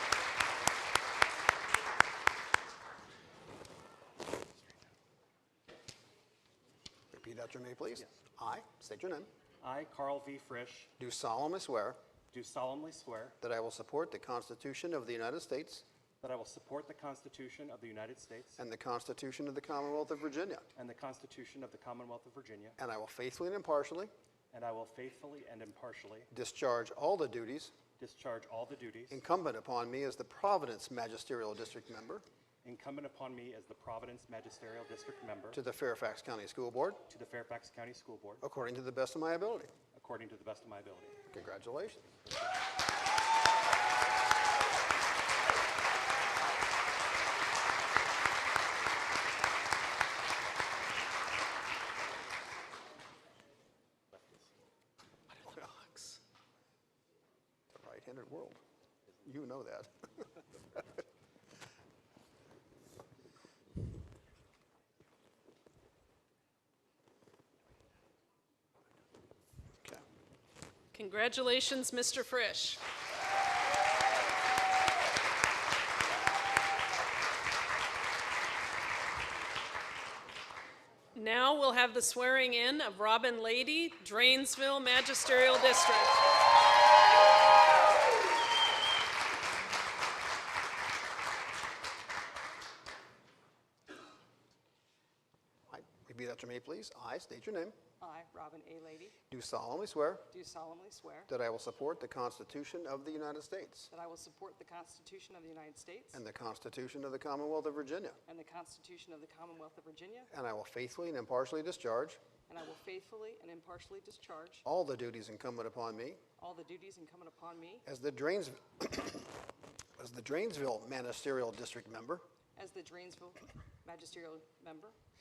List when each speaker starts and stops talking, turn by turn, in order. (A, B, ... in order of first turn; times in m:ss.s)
0:07.1-0:09.3 A
0:09.6-0:10.9 B
0:11.0-0:12.0 A
0:12.3-0:13.4 B
0:13.4-0:15.8 A
0:16.2-0:18.6 B
0:18.6-0:20.7 A
0:20.7-0:22.8 B
0:22.8-0:24.1 A
0:24.5-0:26.3 B
0:26.3-0:27.7 A
0:28.0-0:29.2 B
0:29.1-0:32.2 A
0:32.6-0:35.6 B
0:35.5-0:37.0 A
0:37.1-0:38.4 B
0:38.4-0:39.7 A
0:39.9-0:41.2 B
0:41.3-0:42.1 A
0:42.2-0:42.5 B
0:55.4-0:56.2 A
0:57.7-0:58.6 A
0:59.2-0:59.9 A
1:10.9-1:12.8 C
1:21.1-1:26.2 C
1:35.7-1:37.8 A
1:38.0-1:39.1 D
1:39.3-1:40.3 A
1:40.3-1:41.3 D
1:41.3-1:43.9 A
1:43.9-1:46.2 D
1:46.1-1:48.2 A
1:48.3-1:50.3 D
1:50.3-1:52.2 A
1:52.5-1:54.6 D
1:54.6-1:56.2 A
1:56.4-1:57.8 D
1:57.8-1:59.3 A
2:00.0-2:02.2 A
2:02.6-2:04.9 D